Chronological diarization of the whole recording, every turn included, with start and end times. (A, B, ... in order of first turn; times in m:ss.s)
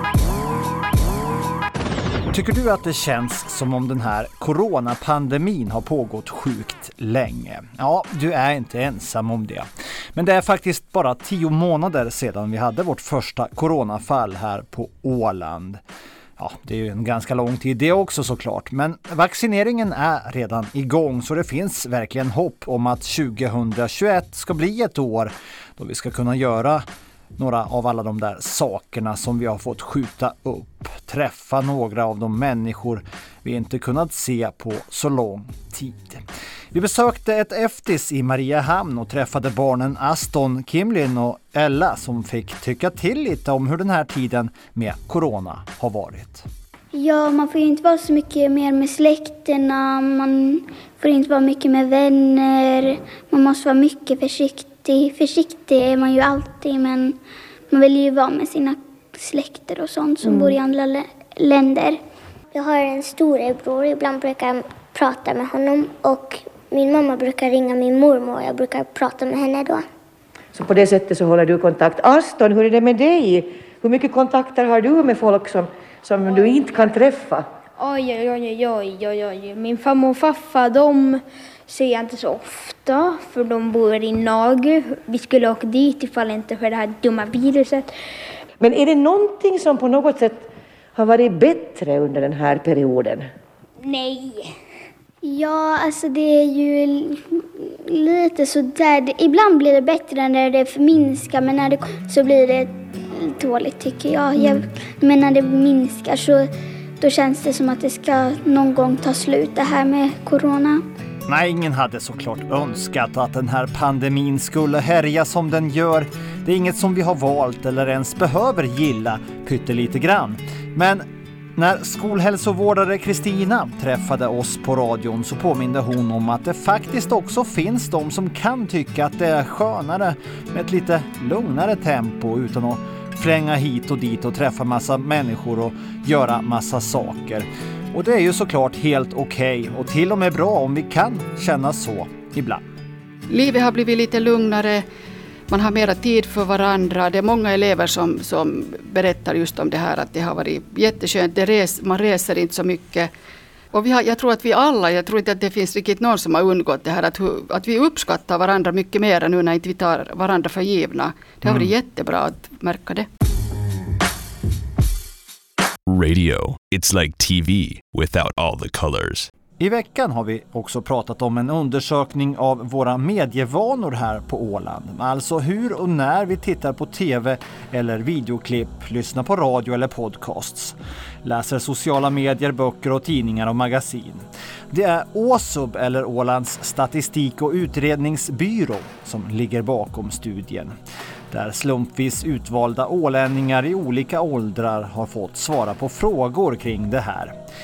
0:02.3-0:15.8 A
0:16.4-0:26.8 A
0:27.4-0:46.4 A
0:46.9-0:57.2 B
0:57.7-1:02.0 B
1:00.2-1:00.5 C
1:02.5-1:09.8 D
1:10.5-1:17.4 C
1:17.8-1:27.9 E
1:28.6-1:33.3 C
1:33.8-1:34.5 E
1:35.2-1:37.2 B
1:37.9-1:46.5 B
1:47.0-1:50.8 B
1:51.3-2:01.0 A
2:01.6-2:22.6 A
2:23.3-2:24.8 F
2:25.5-2:33.1 F
2:33.7-2:43.1 F
2:46.6-2:49.0 G
2:49.6-3:10.7 A
3:11.3-3:17.3 A